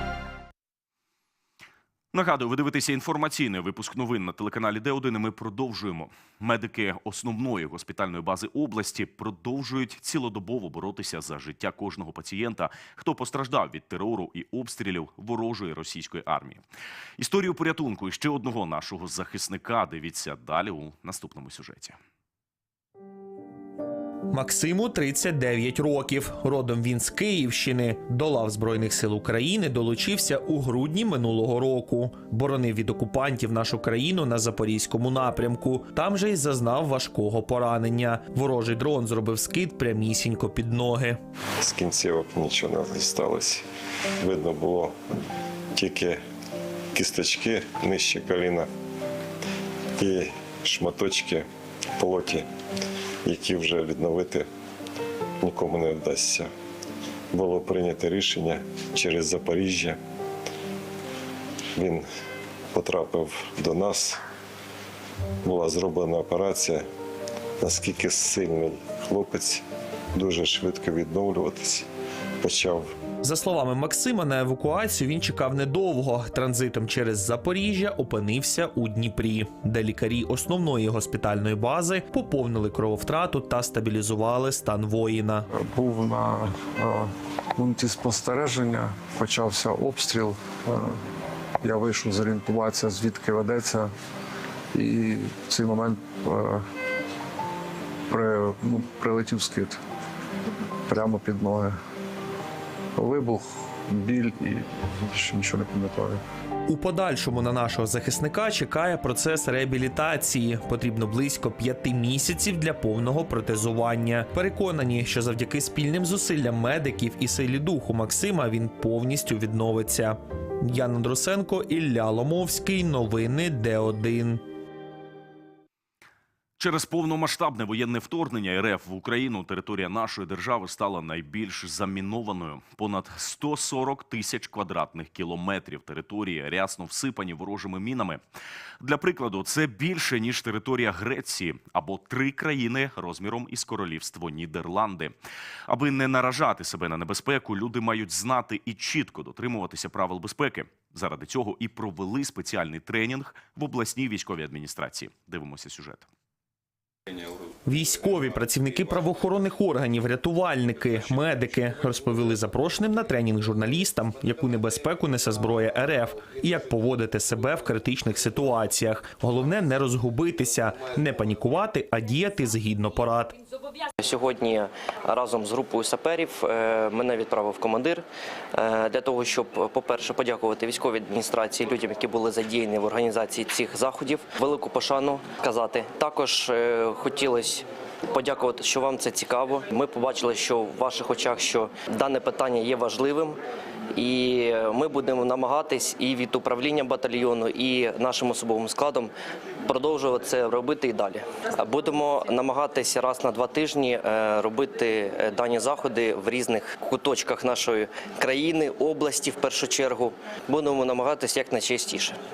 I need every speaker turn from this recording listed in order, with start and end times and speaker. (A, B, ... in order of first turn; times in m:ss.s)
0:02.1-0:16.6 A
0:17.2-0:22.0 A
0:24.3-0:41.2 B
0:41.6-0:43.6 C
0:44.2-0:44.9 C
0:45.8-0:46.2 C
0:46.9-0:48.7 C
0:50.0-0:51.4 C
0:52.0-0:52.5 C
0:53.2-0:54.5 C
0:55.4-0:56.5 C
0:57.3-1:00.0 C
1:01.8-1:02.1 C
1:02.7-1:04.2 C
1:05.4-1:06.8 C
1:07.6-1:09.6 C
1:10.1-1:11.8 C
1:12.4-1:12.9 C
1:13.2-1:25.4 B
1:25.5-1:31.0 D
1:31.6-1:33.9 D
1:34.7-1:36.6 D
1:38.1-1:39.8 D
1:40.9-1:41.8 D
1:43.0-1:46.2 D
1:46.7-2:04.4 B
2:06.6-2:18.2 A
2:18.8-2:25.1 A
2:25.7-2:36.1 A
2:37.6-2:53.3 B
2:54.0-2:58.0 E
2:58.5-3:13.4 E
3:13.9-3:19.1 E
3:19.6-3:32.2 E